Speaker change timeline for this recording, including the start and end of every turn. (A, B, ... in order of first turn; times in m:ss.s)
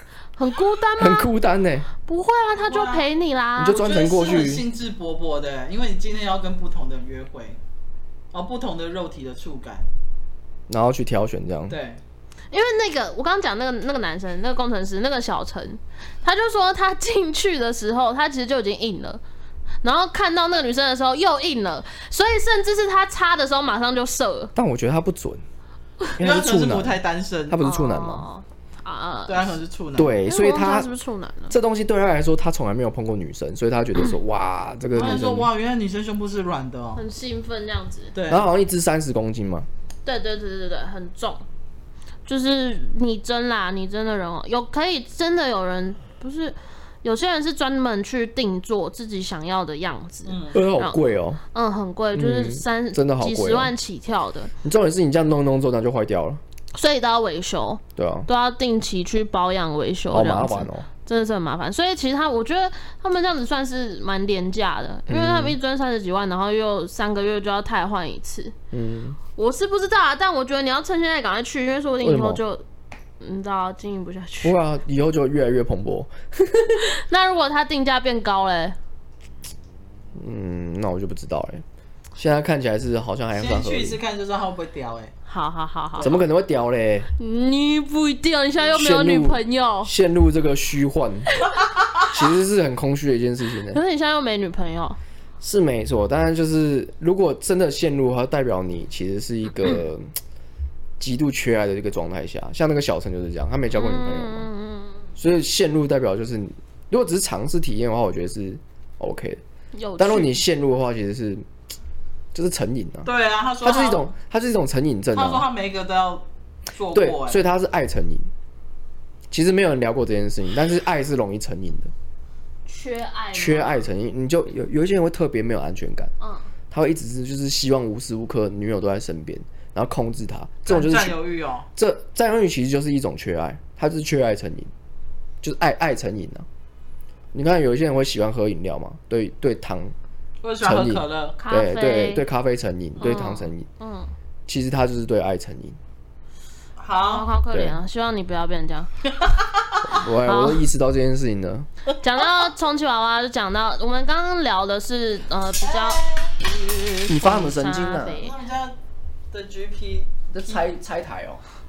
0:00.4-0:01.3 A
0:01.0-0:01.9 B
0:02.0-0:04.0 A
0:02.6-0:03.0 C
0:03.6-0:04.6 B
0:03.7-0:07.6 C
0:08.3-0:09.9 C
0:10.7-0:11.8 B
0:11.7-0:12.0 C
0:12.5-0:19.2 A
0:19.8-0:24.5 A
0:24.5-0:25.4 B
0:26.2-0:27.0 B
0:26.2-0:27.6 C
0:27.5-0:28.2 B
0:27.6-0:29.6 A
0:29.3-0:30.1 C
0:30.0-0:30.9 B
0:30.2-0:31.5 A
0:31.5-0:35.5 B
0:34.9-0:37.0 C
0:37.0-0:38.1 A
0:38.1-0:38.4 C
0:38.3-0:39.7 B
0:40.0-0:41.4 A
0:42.3-0:51.0 A
0:50.2-0:50.6 C
0:50.5-0:51.4 B
0:51.5-0:54.5 A
0:52.1-0:53.7 B
0:54.6-0:56.4 B
0:56.7-1:08.5 A
0:58.0-0:58.3 B
1:00.1-1:00.9 B
1:05.1-1:05.6 B
1:08.7-1:09.2 B
1:09.4-1:12.6 A
1:12.0-1:12.4 B
1:13.2-1:14.6 A
1:14.4-1:16.8 B
1:16.9-1:18.8 A
1:20.2-1:21.6 B
1:22.2-1:24.0 B
1:23.3-1:25.1 C
1:25.3-1:26.1 A
1:26.0-1:27.1 B
1:27.2-1:29.9 A
1:28.7-1:31.3 B
1:32.1-1:33.8 B
1:33.7-1:35.0 A
1:35.4-1:40.1 B
1:41.0-1:44.5 B
1:43.7-1:45.0 A
1:45.2-1:49.4 B
1:49.7-1:50.4 A
1:50.0-1:51.4 B
1:52.3-1:53.1 B
1:53.0-1:54.1 C
1:53.6-1:55.4 B
1:55.1-1:57.4 C
1:56.9-1:58.3 B
1:59.3-2:01.9 B
2:02.7-2:03.8 A
2:03.3-2:06.1 B
2:06.7-2:11.2 B
2:10.6-2:11.7 C
2:11.8-2:14.7 B
2:15.4-2:16.4 B
2:17.3-2:19.9 B
2:20.4-2:21.4 C
2:20.6-2:23.7 B
2:21.4-2:22.2 A
2:23.0-2:24.1 A
2:24.5-2:25.8 B
2:26.8-2:27.3 C
2:27.0-2:28.9 A
2:29.2-2:29.8 C
2:29.9-2:31.7 B
2:30.2-2:30.6 A
2:32.0-2:38.3 A
2:35.6-2:36.3 C
2:37.1-2:38.2 B
2:38.1-2:38.8 C
2:39.3-2:40.6 C
2:40.3-2:41.4 B